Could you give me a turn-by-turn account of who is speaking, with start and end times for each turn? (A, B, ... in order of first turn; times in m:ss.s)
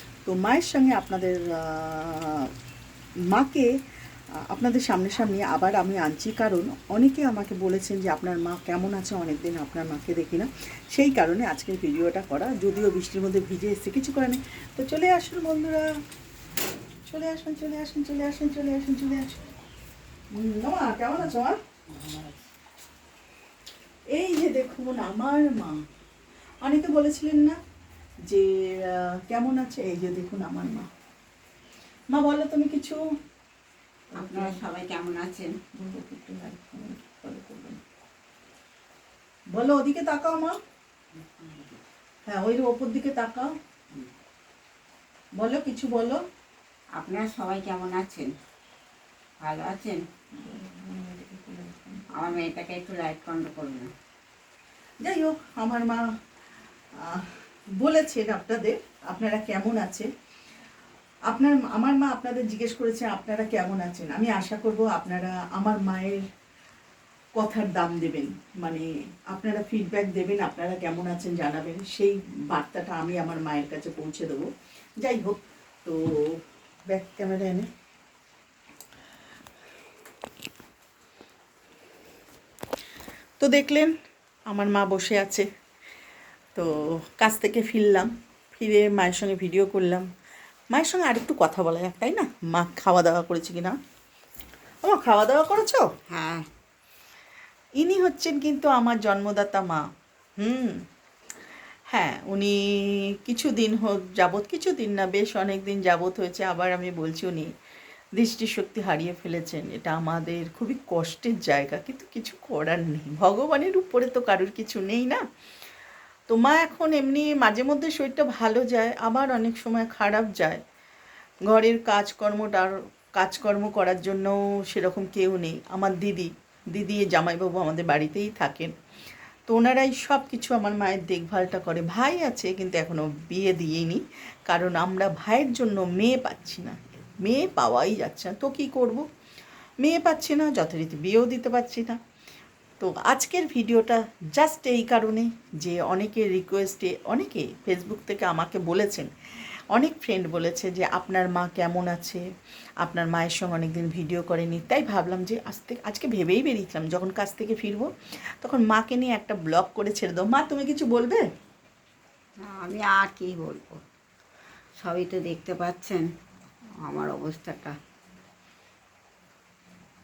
0:00.3-0:02.5 A
0:03.3-0:03.7 A
0:04.5-0:15.8 A
0:17.1-0:19.4 A
0:20.3-0:21.6 A
0:21.9-0:22.4 B
0:24.1-0:25.8 A
0:26.6-0:27.6 A
0:28.3-0:30.9 A
0:32.1-0:33.0 A
0:34.1-0:34.6 A
0:34.2-0:35.5 B
0:35.7-0:37.8 A
0:39.6-0:40.5 A
0:41.2-0:41.8 B
0:42.3-0:43.5 A
0:45.4-0:46.2 A
0:47.0-0:48.3 B
0:49.4-0:50.0 B
0:50.4-0:52.2 A
0:52.1-0:53.9 B
0:55.0-0:56.0 A
0:57.1-1:00.1 A
1:01.3-1:06.2 A
1:07.4-1:14.4 A
1:15.0-1:16.4 A
1:16.9-1:17.6 A
1:23.4-1:23.9 A
1:24.5-1:25.4 A
1:26.6-1:30.0 A
1:30.7-1:33.7 A
1:34.8-1:35.8 A
1:36.1-1:36.5 B
1:37.8-1:39.8 A
1:40.4-1:40.8 A
1:41.9-1:47.5 A
1:48.2-1:55.2 A
1:56.3-2:00.6 A
2:01.5-2:08.7 A
2:09.5-2:19.0 A
2:19.8-2:22.0 A
2:22.8-2:29.1 A
2:29.7-2:32.2 A
2:32.8-2:37.9 A
2:38.4-2:41.2 A
2:42.4-2:43.8 B
2:44.8-2:46.1 B
2:46.8-2:47.8 B